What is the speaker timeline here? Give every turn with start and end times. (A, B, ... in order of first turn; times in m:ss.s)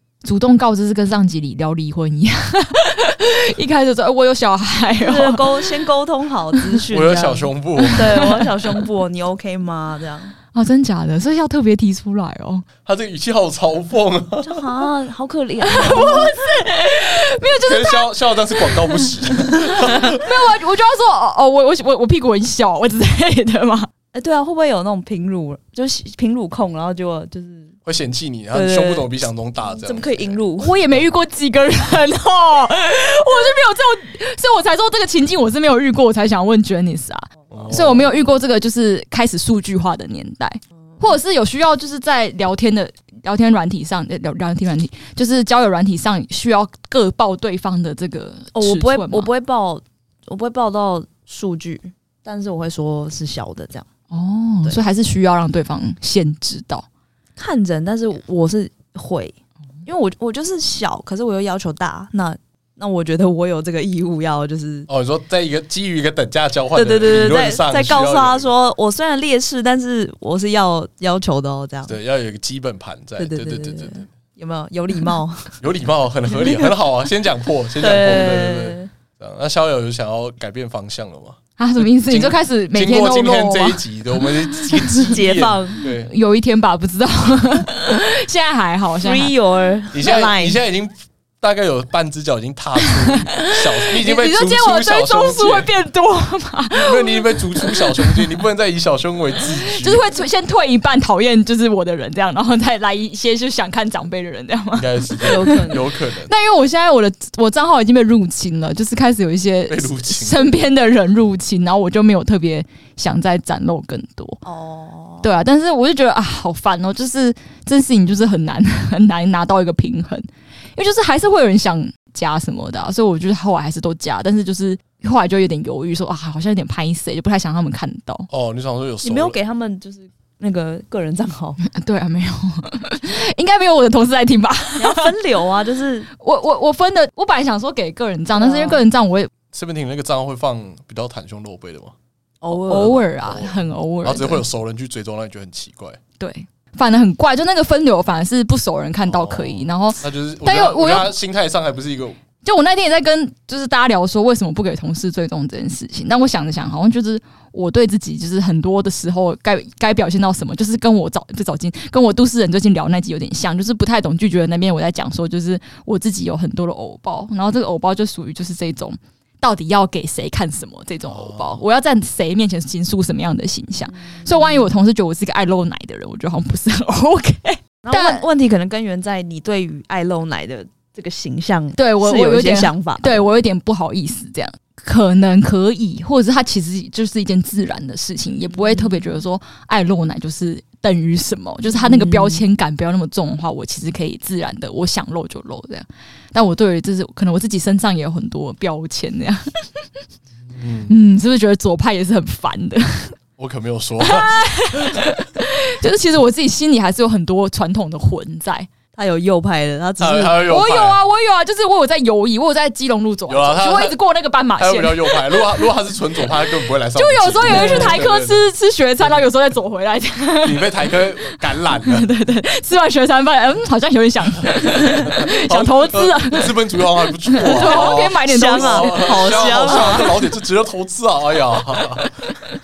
0:00.2-0:05.6 A
0:05.0-0:10.3 B
0:06.9-0:08.0 C
0:07.8-0:08.5 A
0:10.5-0:12.7 A
0:12.8-0:14.6 C
0:14.4-0:16.4 B
0:15.6-0:18.1 A
0:17.6-0:20.3 C
0:18.7-0:19.1 A
0:20.1-0:23.9 A
0:24.1-0:27.7 B
0:27.8-0:30.4 C
0:28.5-0:30.7 B
0:30.6-0:49.3 A
0:37.5-0:38.0 C
0:48.5-0:53.9 B
0:54.1-0:56.8 A
0:57.4-0:59.3 B
0:59.8-1:04.9 B
1:04.9-1:08.5 C
1:06.7-1:11.9 B
1:11.8-1:14.0 C
1:13.2-1:15.6 B
1:15.6-1:26.1 C
1:16.3-1:16.7 B
1:17.8-1:18.9 B
1:21.6-1:23.8 A
1:24.5-1:25.2 A
1:25.1-1:25.8 B
1:26.0-1:29.3 A
1:29.0-1:30.6 B
1:29.9-1:35.7 C
1:32.8-1:38.2 A
1:36.8-1:40.0 C
1:39.6-1:45.7 A
1:44.8-1:46.3 C
1:45.2-1:45.8 B
1:46.2-1:54.4 A
1:49.7-1:50.7 C
1:54.4-1:55.3 B
1:55.2-2:08.3 A
2:08.3-2:09.4 C
2:09.0-2:11.6 B
2:11.6-2:15.1 A
2:14.8-2:16.1 B
2:16.2-2:19.3 A
2:18.4-2:18.8 B
2:19.5-2:21.9 C
2:22.4-2:23.0 B
2:22.5-2:24.4 A
2:23.2-2:26.0 C
2:26.2-2:31.1 A
2:29.0-2:32.2 C
2:32.4-2:58.2 A
2:51.0-2:51.6 C
2:53.9-2:54.7 B
2:57.8-3:03.3 B
3:01.7-3:19.8 A
3:08.6-3:09.0 B
3:11.7-3:12.4 B
3:20.5-3:20.9 C
3:20.9-3:23.2 A
3:23.4-3:25.0 C
3:24.0-3:28.7 A
3:29.0-3:30.4 B
3:30.0-3:31.0 C
3:30.4-3:35.6 A
3:33.3-3:34.0 C
3:34.6-3:38.4 C
3:36.9-3:49.9 A
3:37.5-3:38.0 B
3:40.4-3:42.1 C
3:45.0-3:52.0 C
3:47.6-3:50.1 B
3:52.0-3:52.3 A